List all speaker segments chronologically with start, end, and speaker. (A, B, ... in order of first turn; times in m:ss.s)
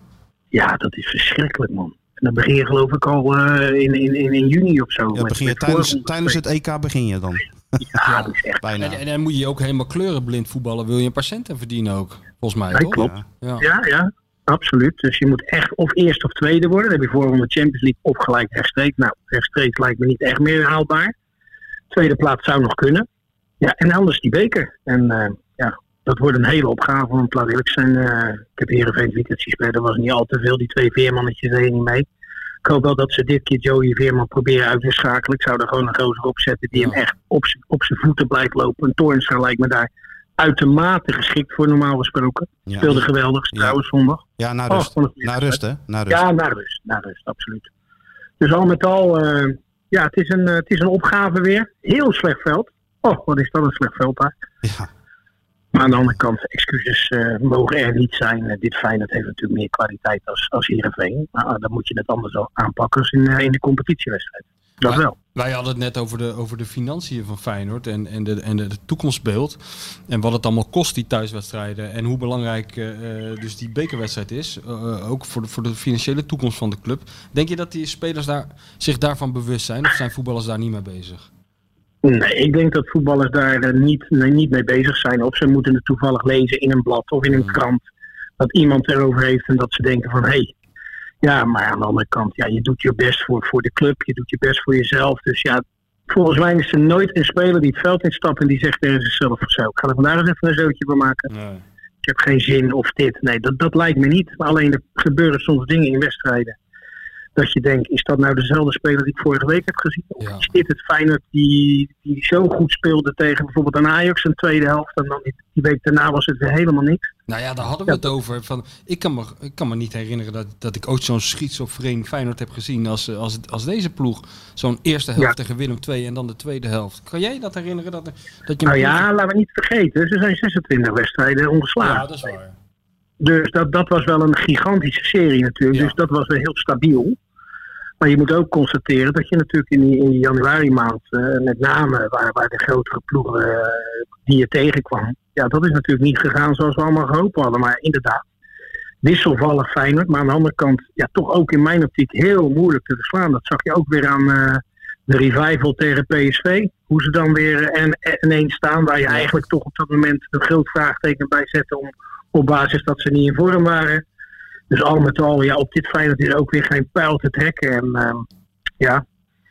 0:00.5-0:06.4 A
0:05.1-0:07.8 B
0:07.9-0:08.6 A
0:08.0-0:13.6 C
0:08.6-0:09.0 B
0:12.7-0:21.1 A
0:12.9-0:13.2 B
0:21.9-0:23.1 A
0:23.6-0:32.0 A
0:32.6-0:45.6 A
0:42.7-0:43.8 B
0:44.4-0:46.2 B
0:46.1-0:47.7 A
0:48.4-0:54.3 A
0:54.6-0:54.9 B
0:55.7-1:05.1 A
1:04.8-1:21.3 C
1:22.0-1:27.8 A
1:27.3-1:27.6 C
1:28.4-1:30.5 A
1:31.2-1:41.3 A
1:41.3-1:41.6 C
1:42.0-1:46.6 A
1:47.4-1:57.1 A
1:50.2-1:50.5 C
1:57.3-2:09.0 C
2:08.6-2:12.1 A
2:11.8-2:12.5 C
2:13.2-2:17.2 A
2:18.0-2:28.2 A
2:29.0-2:44.0 A
2:44.7-2:48.3 A